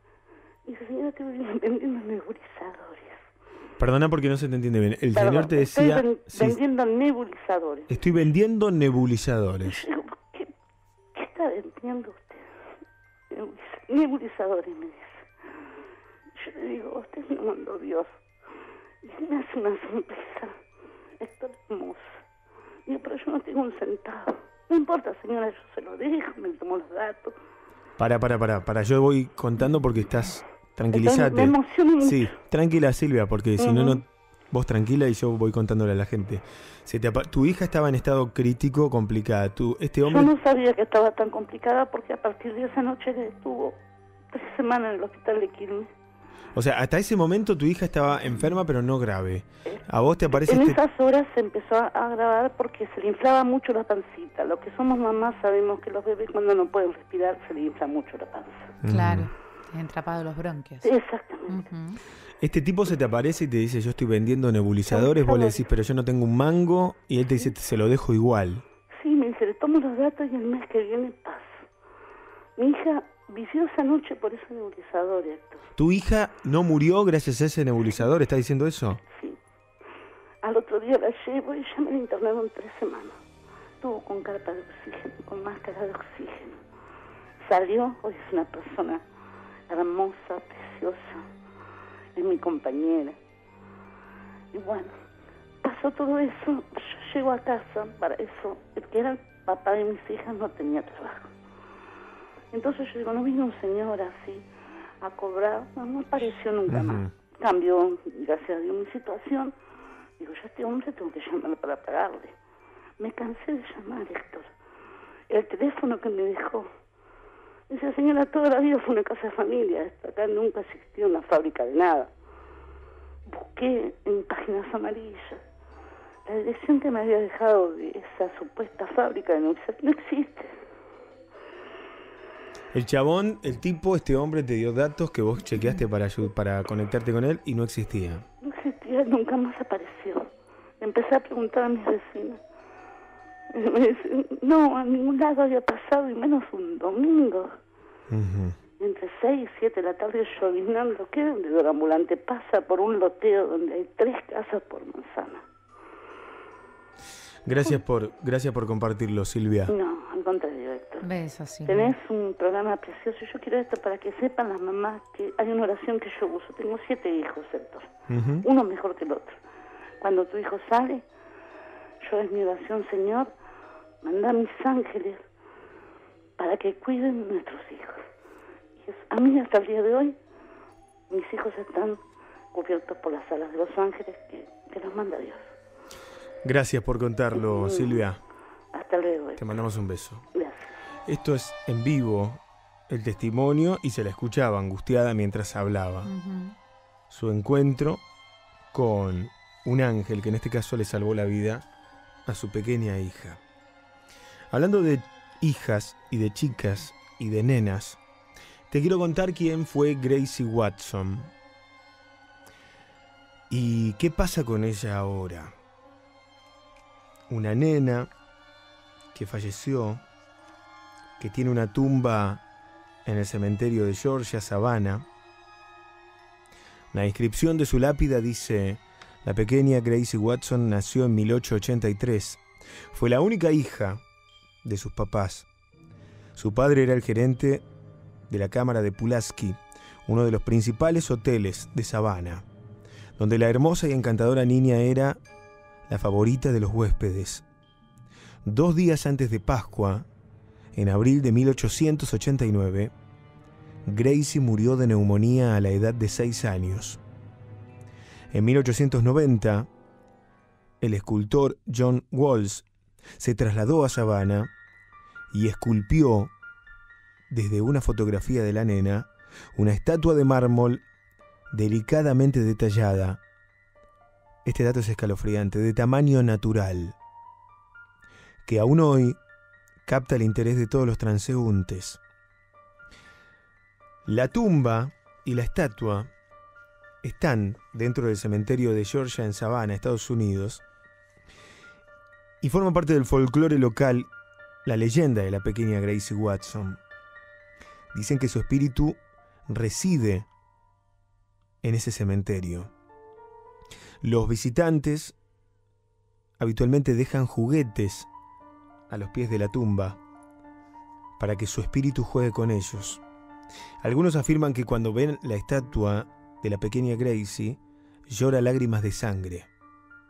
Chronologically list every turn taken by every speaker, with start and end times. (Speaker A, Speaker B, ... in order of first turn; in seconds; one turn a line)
Speaker A: 0.7-3.3
Speaker B: 3.8-6.6
Speaker A: 5.1-8.0
Speaker B: 7.9-9.8
Speaker A: 9.6-10.5
Speaker A: 11.2-12.5
Speaker A: 13.3-15.3
Speaker A: 16.4-18.1
Speaker A: 19.0-20.6
Speaker A: 21.2-22.2
Speaker A: 22.9-27.4
Speaker B: 28.0-40.3
Speaker A: 30.9-32.4
Speaker A: 33.6-34.0
Speaker A: 40.0-43.8
Speaker A: 44.3-45.9
Speaker B: 46.5-50.8
Speaker A: 49.7-58.8
Speaker B: 58.8-59.3
Speaker C: 58.9-60.9
Speaker A: 60.8-61.6
Speaker C: 61.5-62.0
Speaker B: 62.4-68.6
Speaker A: 64.9-65.7
Speaker A: 69.0-71.7
Speaker A: 72.6-75.7
Speaker B: 75.8-79.0
Speaker A: 79.1-79.4
Speaker A: 80.4-83.2
Speaker A: 83.8-86.6
Speaker A: 87.4-89.0
Speaker A: 89.7-91.2
Speaker A: 92.2-93.2
Speaker A: 94.5-95.0
Speaker A: 95.6-101.3
Speaker A: 102.5-104.4
Speaker A: 105.0-109.5
Speaker B: 106.7-107.1
Speaker A: 110.2-112.3
Speaker A: 113.0-114.5
Speaker A: 115.3-116.7
Speaker A: 117.7-122.1
Speaker A: 123.3-125.4
Speaker A: 126.3-130.6
Speaker B: 132.7-138.2
Speaker A: 138.4-140.3
Speaker A: 140.8-142.4
Speaker A: 143.5-147.5
Speaker B: 148.1-148.6
Speaker A: 148.8-155.4
Speaker B: 157.5-159.7
Speaker A: 159.7-161.1
Speaker C: 161.0-161.9
Speaker A: 161.7-167.9
Speaker B: 168.1-168.5
Speaker A: 168.4-169.4
Speaker A: 170.0-171.0
Speaker A: 172.0-173.3
Speaker A: 174.0-175.2
Speaker A: 176.4-178.1
Speaker A: 178.8-180.2
Speaker A: 181.1-182.0
Speaker A: 182.5-185.5
Speaker B: 186.4-188.2
Speaker A: 187.3-188.1
Speaker A: 188.7-189.6
Speaker B: 189.4-190.2
Speaker A: 190.3-190.8
Speaker B: 191.1-196.1
Speaker C: 196.1-196.6
Speaker B: 197.1-198.0
Speaker B: 198.7-201.7
Speaker B: 202.3-203.4
Speaker B: 204.5-208.0
Speaker B: 208.7-211.3
Speaker B: 213.5-215.6
Speaker B: 217.3-218.1
Speaker B: 219.1-220.0
Speaker B: 221.2-222.4
Speaker B: 223.1-225.1
Speaker B: 226.9-232.4
Speaker B: 232.9-234.0
Speaker B: 234.6-235.5
Speaker B: 236.4-237.7
Speaker B: 238.3-242.4
Speaker B: 243.2-245.2
Speaker B: 245.9-247.4
Speaker B: 248.4-250.1
Speaker B: 250.7-252.9
Speaker B: 253.8-257.0
Speaker B: 258.3-259.7
Speaker B: 260.8-262.7
Speaker B: 263.2-264.5
Speaker B: 265.3-266.3
Speaker B: 267.3-270.8
Speaker B: 271.5-273.2
Speaker B: 274.4-277.0
Speaker B: 278.5-279.2
Speaker B: 279.9-282.0
Speaker B: 284.1-286.1
Speaker B: 287.0-290.6
Speaker B: 292.4-294.1
Speaker B: 294.6-296.8
Speaker B: 297.9-300.3
Speaker B: 301.6-302.7
Speaker B: 304.0-305.1
Speaker B: 306.4-308.1
Speaker B: 308.9-310.0
Speaker B: 311.2-313.0
Speaker B: 313.8-319.5